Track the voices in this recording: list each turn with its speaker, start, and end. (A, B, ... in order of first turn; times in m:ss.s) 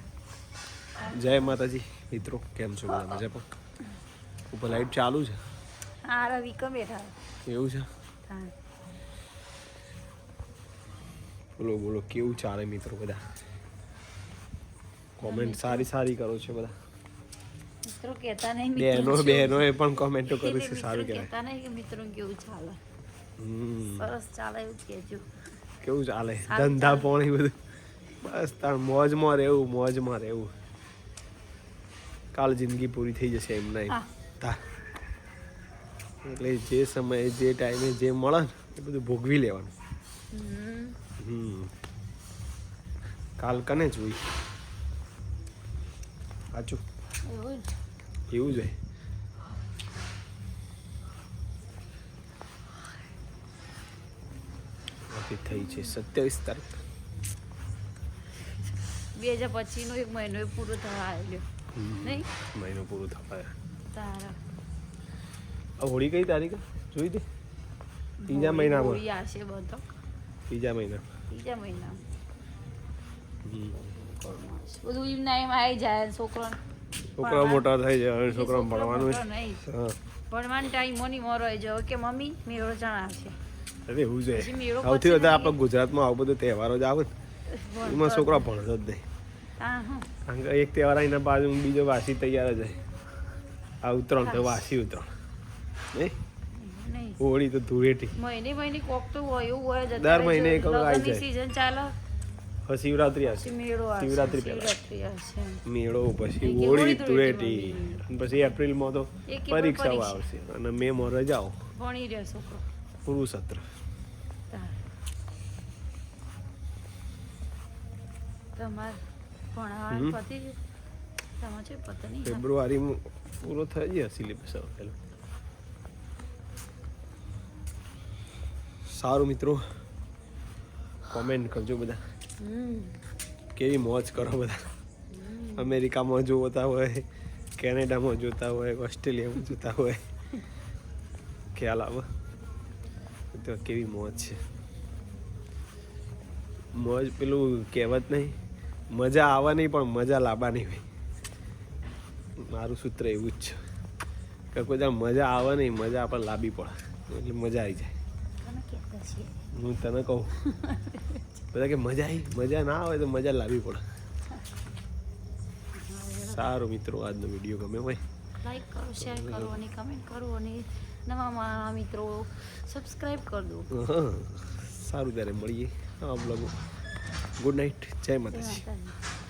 0:01.0-0:01.4 A
0:01.1-0:03.5 B
0:04.5-0:05.4 B
0:06.0-0:07.1 A
0:07.4-0:07.9 B
0:08.3-0:08.5 A
0:11.6-0:13.2 B
0:15.2-0:16.7 B
0:15.2-0:15.9 A
0:17.8-0:19.6 A
0:18.8-0:21.3 B
0:20.3-0:22.8 A
0:23.4-0:24.1 B
0:24.0-0:25.3 A
0:25.8-0:27.6 B
0:26.4-0:27.1 A
0:28.2-0:30.5 B
0:32.3-0:34.6 B
0:36.2-0:39.7 B
0:40.3-0:41.0 A
0:41.2-0:41.7 B
0:43.4-0:44.2 B
0:46.5-0:46.8 B
0:47.3-0:47.7 A
0:48.3-0:48.8 B
0:55.1-0:56.8 B
0:55.6-0:55.9 A
0:59.1-1:01.4 A
1:01.8-1:03.5 B
1:02.0-1:02.3 A
1:03.9-1:04.4 A
1:05.8-1:07.3 B
1:08.2-1:09.9 A
1:08.3-1:09.0 B
1:10.5-1:11.1 B
1:11.3-1:12.0 A
1:13.4-1:13.9 B
1:14.1-1:16.6 A
1:17.2-1:20.0 B
1:17.2-1:17.7 A
1:18.2-1:19.6 A
1:20.3-1:23.4 A
1:23.9-1:27.1 B
1:24.3-1:25.6 A
1:27.5-1:28.5 A
1:27.8-1:29.1 B
1:29.6-1:30.1 A
1:30.3-1:32.8 B
1:33.8-1:35.1 B
1:34.2-1:34.7 A
1:36.6-1:37.2 A
1:37.2-1:38.2 B
1:38.2-1:42.0 A
1:40.0-1:41.3 B
1:42.7-1:44.7 B
1:43.2-1:45.6 A
1:45.7-1:51.6 B
1:46.4-1:48.0 A
1:49.3-1:50.3 A
1:51.7-1:52.6 A
1:53.0-1:53.7 B
1:54.5-1:54.8 A
1:58.6-1:59.0 A
1:59.5-2:00.6 A
1:59.9-2:00.2 B
2:01.4-2:02.4 A
2:02.2-2:05.0 B
2:08.9-2:09.6 B
2:11.0-2:12.0 B
2:12.4-2:13.0 A
2:13.6-2:14.7 B
2:15.1-2:15.7 A
2:15.6-2:17.0 B
2:17.6-2:20.0 B
2:21.5-2:22.1 B
2:23.3-2:24.4 B
2:26.8-2:28.4 B
2:28.9-2:30.9 B
2:32.4-2:33.6 B
2:34.5-2:38.0 B
2:38.4-2:39.4 A
2:39.5-2:40.4 B
2:40.4-2:41.2 A
2:41.5-2:43.8 B
2:45.8-2:46.4 A
2:46.2-2:48.0 B
2:48.4-2:53.7 A
2:49.0-2:49.5 B
2:53.7-2:56.5 B
2:57.4-2:58.6 B
2:58.3-2:59.0 A